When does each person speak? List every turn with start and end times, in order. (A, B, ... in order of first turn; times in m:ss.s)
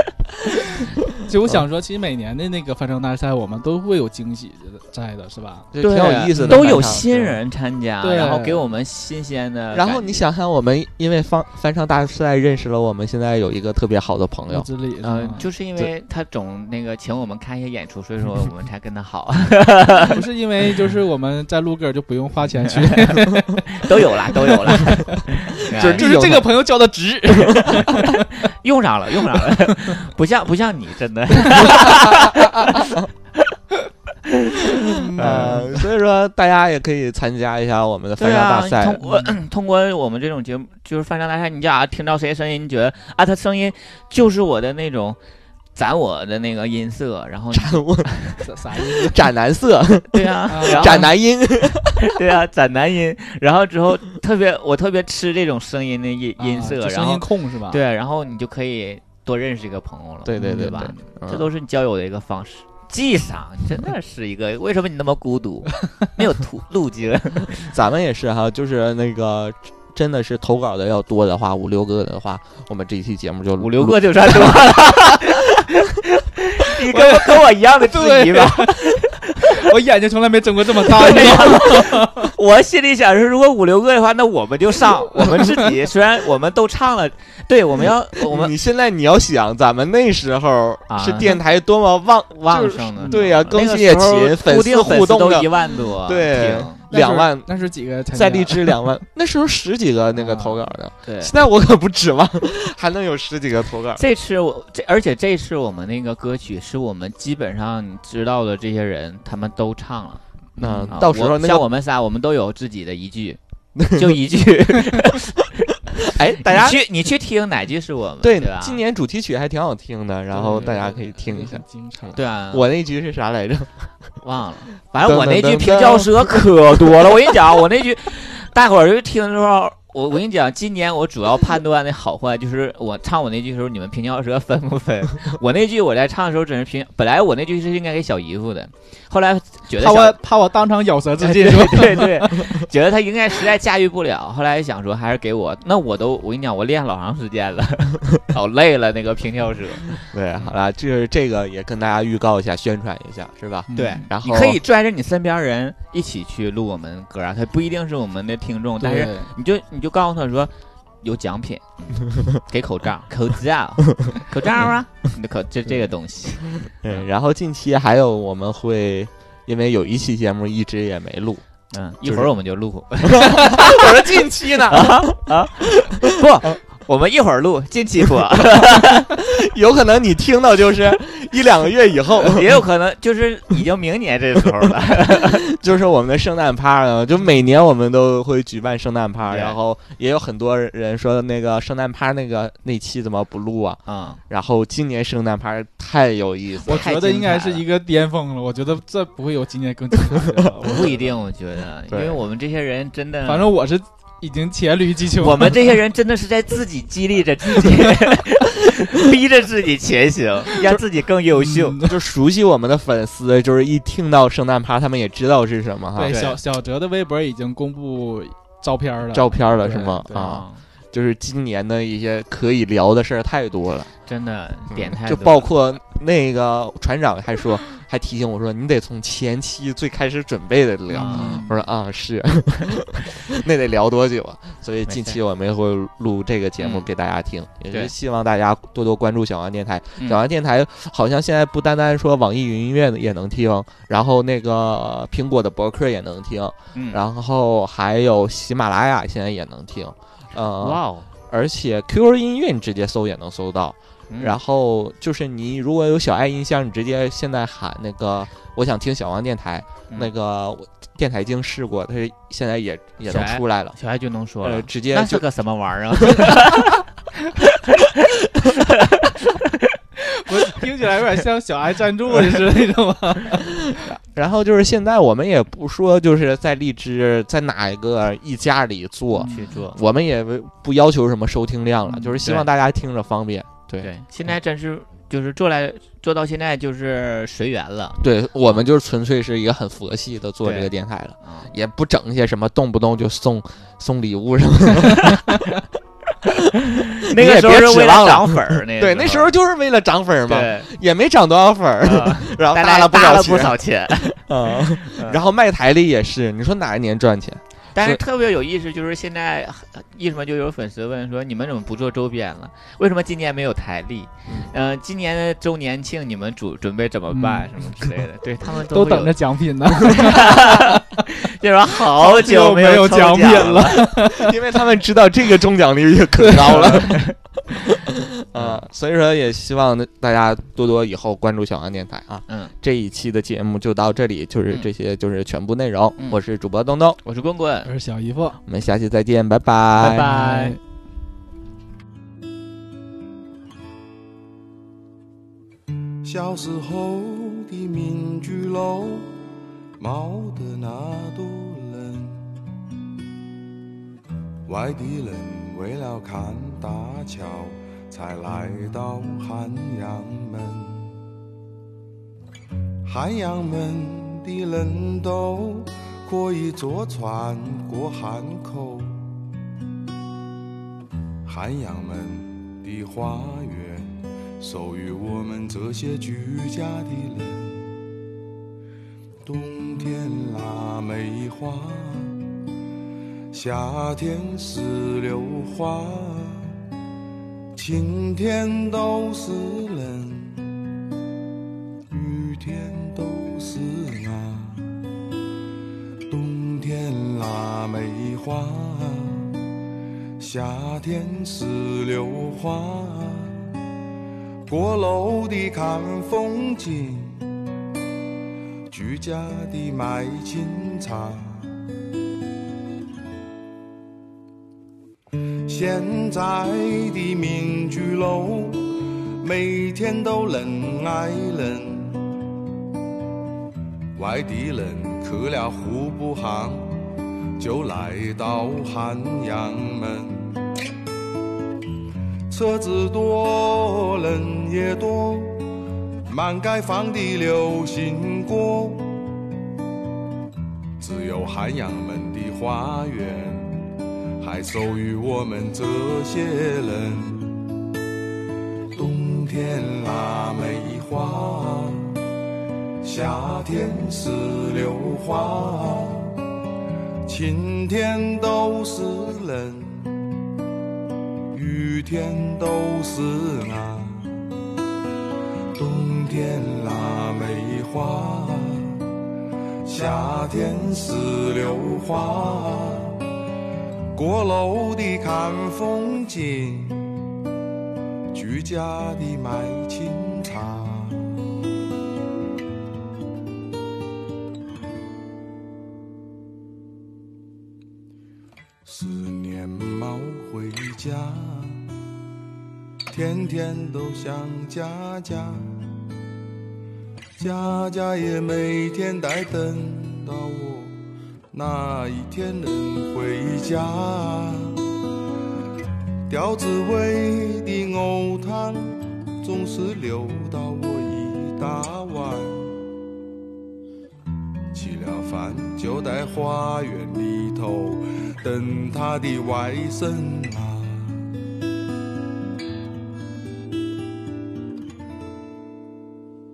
0:01.2-0:05.7 A
0:05.7-0:07.4 B
0:05.8-0:10.2 C
0:06.4-0:07.0 A
0:08.0-0:08.6 A
0:09.7-0:14.7 B
0:14.5-0:15.4 A
0:15.0-0:20.2 C
0:20.1-0:25.2 A
0:23.0-0:26.0 C
0:25.7-0:26.5 B
0:26.0-0:28.3 A
0:27.4-0:28.0 B
0:28.4-0:33.5 C
0:31.9-0:33.1 B
0:34.2-0:35.8 C
0:34.9-0:35.6 A
0:35.2-0:39.0 B
0:38.2-0:45.2 C
0:45.7-0:48.4 C
0:47.5-0:48.1 B
0:48.4-0:49.2 A
0:49.0-0:52.1 B
0:50.1-0:51.1 C
0:50.5-0:51.0 A
0:52.0-1:07.7 C
0:56.4-0:57.8 A
1:00.2-1:01.5 B
1:00.4-1:01.0 A
1:07.5-1:14.5 B
1:13.6-1:19.6 C
1:16.9-1:22.3 A
1:20.8-1:28.5 C
1:25.2-1:25.6 A
1:28.3-1:37.5 B
1:30.9-1:31.4 C
1:32.4-1:36.8 C
1:33.1-1:33.4 A
1:36.9-1:38.8 A
1:38.1-1:44.0 B
1:40.1-1:40.6 A
1:41.0-1:41.3 C
1:44.0-1:50.2 C
1:50.6-1:51.7 B
1:50.6-1:50.9 A
1:50.9-1:58.8 C
1:53.8-1:54.2 B
1:56.0-1:56.8 B
1:58.2-2:01.6 B
2:00.3-2:02.2 A
2:02.1-2:02.7 C
2:02.5-2:03.9 B
2:04.2-2:20.2 C
2:05.0-2:07.0 B
2:19.8-2:22.3 A
2:21.2-2:30.5 C
2:30.1-2:34.6 B
2:33.7-2:34.0 A
2:33.7-2:40.5 C
2:38.8-2:39.3 A
2:41.0-2:47.0 C
2:46.8-2:51.4 B
2:51.7-2:54.0 C
2:52.0-2:52.3 B
2:53.0-2:56.6 B
2:54.7-2:59.1 C
2:58.4-3:02.6 B
3:02.2-3:05.4 C
3:05.0-3:16.9 B
3:09.2-3:09.6 C
3:13.9-3:14.2 C
3:16.6-3:17.6 C
3:16.7-3:21.1 A
3:20.2-3:20.4 B
3:20.6-3:23.5 C
3:21.9-3:22.2 B
3:23.2-3:25.6 A
3:25.2-3:31.9 C
3:31.4-3:31.9 A
3:31.8-3:36.2 B
3:36.0-3:40.3 A
3:36.1-3:36.4 C
3:39.1-3:43.9 B
3:40.1-3:40.6 C
3:44.1-3:45.5 C
3:44.7-4:23.8 B
3:50.9-3:51.5 A
3:51.0-3:51.4 C
3:54.9-3:55.2 C
3:56.6-3:56.9 C
4:06.7-4:07.0 C
4:10.6-4:11.1 C
4:14.1-4:14.4 C
4:23.1-4:26.8 C
4:24.4-4:25.2 B
4:26.0-4:26.3 B
4:27.4-4:29.7 C
4:30.2-4:33.4 A
4:33.5-4:43.9 B
4:39.1-4:39.4 A
4:39.3-4:39.8 C
4:42.1-4:42.5 C
4:43.8-4:48.6 C
4:48.0-4:55.5 B
4:50.4-4:50.7 C
4:51.2-4:51.5 C
4:56.7-4:59.3 C
4:57.1-5:08.0 B
5:00.3-5:00.7 C
5:01.8-5:05.2 C
5:07.7-5:19.2 C
5:17.1-5:18.0 A
5:18.5-5:21.0 A
5:19.8-5:23.9 C
5:22.0-5:24.3 A
5:24.0-5:27.0 B
5:26.2-5:26.9 A
5:26.4-5:27.1 C
5:27.7-5:37.0 B
5:28.3-5:28.6 C
5:37.0-5:37.7 C
5:37.6-5:38.4 A
5:38.4-5:40.2 B
5:39.8-5:40.6 C
5:40.1-5:40.6 A
5:46.0-5:49.1 D
5:49.8-5:52.4 D
5:54.5-6:01.0 D
6:02.8-6:09.2 D
6:11.2-6:17.8 D
6:19.2-6:22.2 D
6:23.3-6:26.6 D
6:27.5-6:30.6 D
6:31.9-6:34.8 D
6:36.1-6:39.4 D
6:40.2-6:43.5 D
6:44.5-6:47.3 D
6:48.7-6:51.5 D
6:55.4-7:02.1 D
7:04.0-7:06.8 D
7:07.4-7:10.4 D
7:12.3-7:15.5 D
7:16.1-7:19.0 D
7:20.8-7:27.4 D
7:28.7-7:32.0 D
7:32.8-7:36.2 D
7:37.0-7:40.1 D
7:41.3-7:44.2 D
7:45.5-7:48.8 D
7:49.6-7:53.0 D
7:53.9-7:57.0 D
7:58.1-8:01.2 D
8:08.6-8:11.7 D
8:12.9-8:15.6 D
8:17.2-8:20.8 D
8:21.3-8:24.7 D
8:26.1-8:32.6 D
8:34.5-8:41.1 D